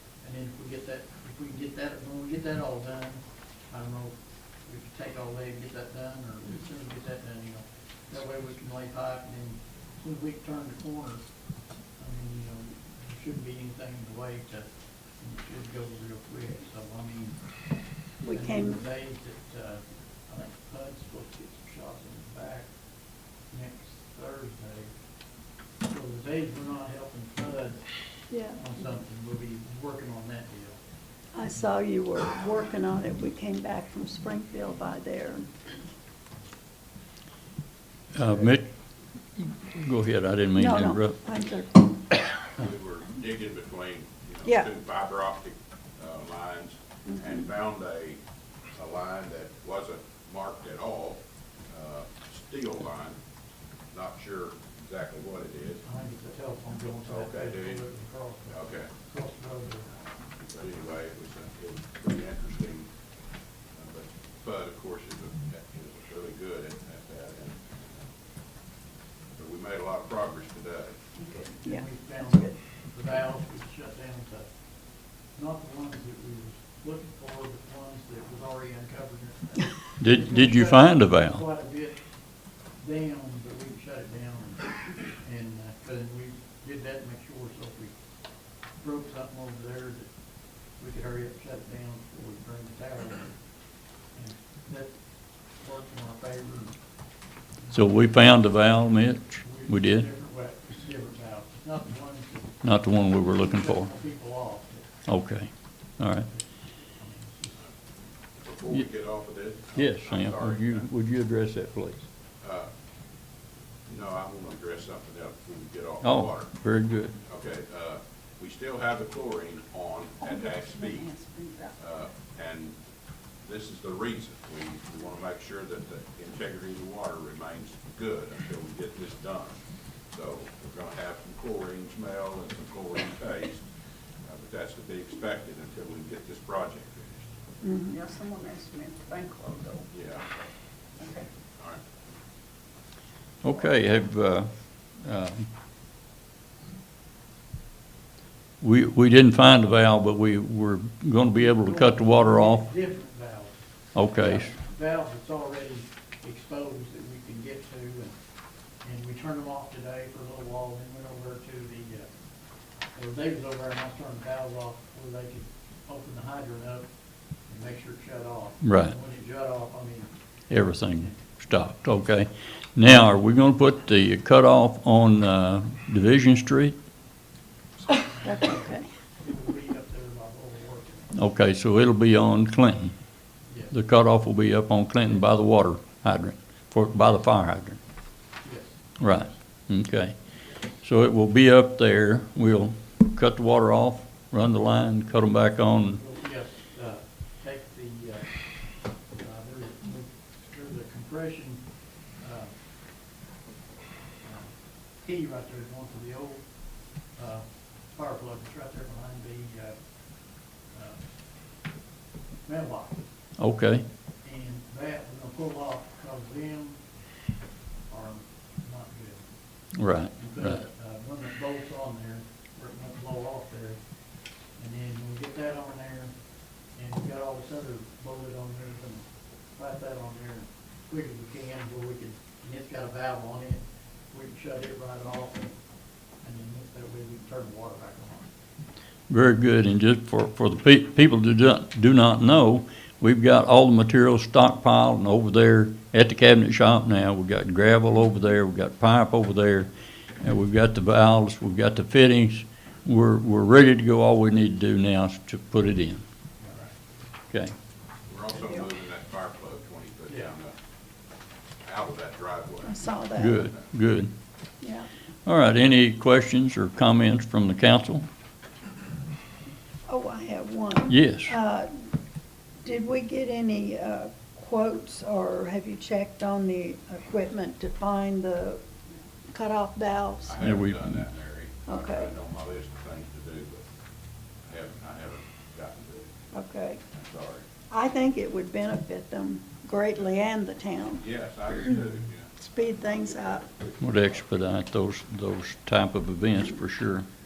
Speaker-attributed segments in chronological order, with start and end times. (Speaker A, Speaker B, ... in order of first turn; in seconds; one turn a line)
Speaker A: 0.2-11.2
Speaker A: 12.0-17.4
Speaker B: 18.2-18.8
Speaker A: 18.3-22.7
Speaker A: 23.5-24.9
Speaker A: 25.8-27.8
Speaker B: 28.3-28.6
Speaker A: 28.5-30.8
Speaker B: 31.3-35.5
Speaker C: 38.1-38.7
Speaker C: 39.4-41.1
Speaker B: 40.5-42.1
Speaker D: 42.5-48.2
Speaker B: 47.1-47.4
Speaker D: 48.7-53.2
Speaker D: 53.9-55.8
Speaker A: 55.8-59.9
Speaker D: 57.0-57.8
Speaker D: 58.5-58.9
Speaker D: 60.5-62.9
Speaker D: 63.7-68.1
Speaker D: 69.3-71.0
Speaker A: 71.4-74.5
Speaker A: 75.2-82.0
Speaker C: 80.0-81.4
Speaker A: 82.7-88.0
Speaker A: 88.8-90.1
Speaker A: 90.7-93.4
Speaker A: 94.1-96.8
Speaker A: 97.6-97.9
Speaker C: 97.7-100.1
Speaker A: 99.4-102.6
Speaker C: 102.6-103.9
Speaker A: 103.3-104.9
Speaker C: 105.1-106.3
Speaker A: 106.9-107.6
Speaker D: 108.4-110.8
Speaker C: 109.7-112.0
Speaker D: 112.4-112.7
Speaker D: 113.9-116.5
Speaker C: 116.0-117.1
Speaker D: 117.2-121.1
Speaker B: 120.4-121.6
Speaker E: 121.4-121.7
Speaker D: 121.8-122.7
Speaker D: 123.4-129.5
Speaker D: 130.1-133.6
Speaker D: 134.3-137.3
Speaker B: 137.6-138.1
Speaker E: 137.9-139.8
Speaker D: 139.9-140.2
Speaker C: 143.4-145.4
Speaker C: 148.6-152.7
Speaker A: 151.4-153.6
Speaker C: 153.9-154.5
Speaker A: 154.2-158.1
Speaker A: 158.8-162.1
Speaker A: 162.9-166.9
Speaker A: 167.4-170.1
Speaker C: 168.6-168.9
Speaker C: 170.5-176.8
Speaker B: 177.9-178.9
Speaker A: 178.1-181.1
Speaker C: 181.1-182.9
Speaker A: 183.5-183.7
Speaker C: 183.7-187.8
Speaker A: 188.4-189.3
Speaker C: 189.0-190.2
Speaker C: 190.8-196.0
Speaker A: 195.9-202.5
Speaker A: 204.2-209.8
Speaker A: 210.7-211.0
Speaker A: 212.4-213.0
Speaker C: 213.4-213.8
Speaker A: 214.2-216.8
Speaker A: 217.9-219.3
Speaker C: 219.8-220.6
Speaker A: 220.1-223.8
Speaker A: 224.5-226.1
Speaker A: 226.7-235.6
Speaker A: 236.2-238.3
Speaker C: 239.1-256.0
Speaker A: 256.4-256.6
Speaker D: 258.1-260.5
Speaker D: 261.6-263.6
Speaker B: 262.6-263.4
Speaker C: 263.1-264.1
Speaker B: 264.6-264.9
Speaker C: 265.2-268.0
Speaker B: 269.9-271.7
Speaker C: 270.9-271.3
Speaker B: 272.6-278.6
Speaker B: 279.3-280.4
Speaker D: 280.2-283.6
Speaker C: 280.4-281.0
Speaker B: 281.7-282.1
Speaker D: 284.4-286.1
Speaker B: 286.3-286.8
Speaker D: 286.9-287.4
Speaker B: 287.7-291.5
Speaker D: 291.0-293.7
Speaker B: 292.4-293.4
Speaker C: 293.8-297.1